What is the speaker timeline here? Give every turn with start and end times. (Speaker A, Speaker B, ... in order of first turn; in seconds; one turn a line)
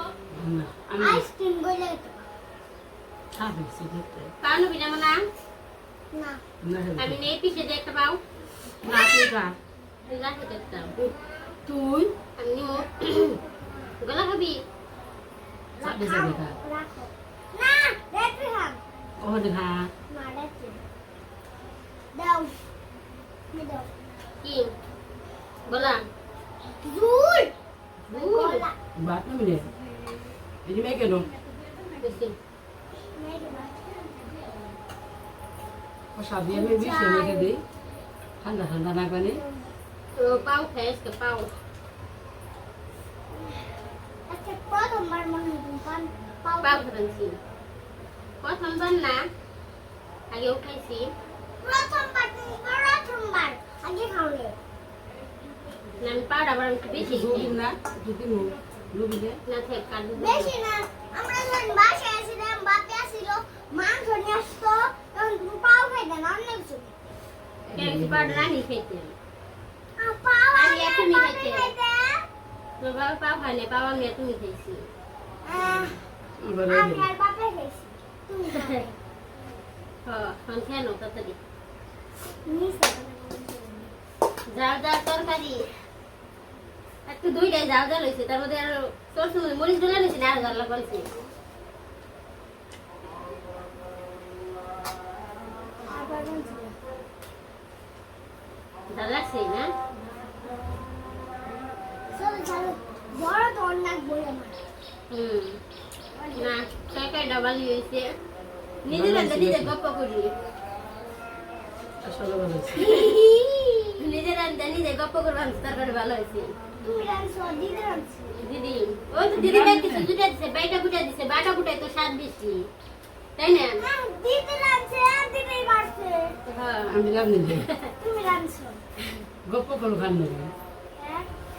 Speaker A: 0.3-1.3
Speaker B: 1.0-2.2
Speaker A: 3.3-4.3
Speaker C: 4.4-5.2
Speaker B: 6.1-6.4
Speaker A: 6.6-7.2
Speaker C: 7.0-8.2
Speaker A: 8.8-9.6
Speaker C: 10.0-11.1
Speaker A: 11.7-12.1
Speaker C: 12.4-13.4
Speaker C: 14.0-14.6
Speaker B: 15.8-18.8
Speaker A: 15.8-16.6
Speaker A: 19.2-19.9
Speaker B: 20.1-20.8
Speaker B: 22.1-22.6
Speaker B: 23.5-23.9
Speaker C: 24.4-24.7
Speaker C: 25.6-26.1
Speaker B: 26.8-27.5
Speaker C: 28.1-28.7
Speaker B: 28.1-28.8
Speaker A: 28.9-29.7
Speaker A: 30.6-31.3
Speaker C: 32.0-32.4
Speaker B: 33.1-34.5
Speaker A: 36.1-37.6
Speaker B: 36.5-37.5
Speaker A: 38.4-39.4
Speaker B: 39.3-39.7
Speaker C: 40.1-41.5
Speaker B: 43.3-43.7
Speaker B: 44.3-46.9
Speaker C: 46.6-47.4
Speaker C: 48.4-49.2
Speaker C: 50.3-51.1
Speaker B: 51.6-54.5
Speaker C: 56.0-57.6
Speaker A: 56.9-59.4
Speaker C: 59.4-60.5
Speaker B: 60.1-66.9
Speaker A: 67.7-68.5
Speaker C: 67.8-69.1
Speaker B: 70.0-72.2
Speaker C: 70.5-71.7
Speaker C: 72.8-74.9
Speaker B: 75.4-76.0
Speaker A: 76.4-77.1
Speaker B: 76.7-79.0
Speaker C: 80.0-81.4
Speaker B: 82.5-83.9
Speaker C: 84.5-85.7
Speaker C: 87.0-91.1
Speaker B: 95.9-96.8
Speaker C: 98.9-99.7
Speaker B: 102.1-104.6
Speaker C: 105.1-105.6
Speaker B: 106.1-106.6
Speaker C: 106.3-108.1
Speaker C: 108.8-110.3
Speaker A: 108.9-109.7
Speaker A: 112.0-112.9
Speaker C: 112.8-116.5
Speaker B: 112.9-113.8
Speaker B: 116.8-118.3
Speaker C: 118.4-122.7
Speaker A: 119.3-120.1
Speaker C: 123.4-123.8
Speaker B: 123.8-126.4
Speaker C: 126.5-127.9
Speaker A: 126.9-127.7
Speaker B: 128.0-128.8
Speaker A: 129.5-130.5
Speaker B: 131.0-131.3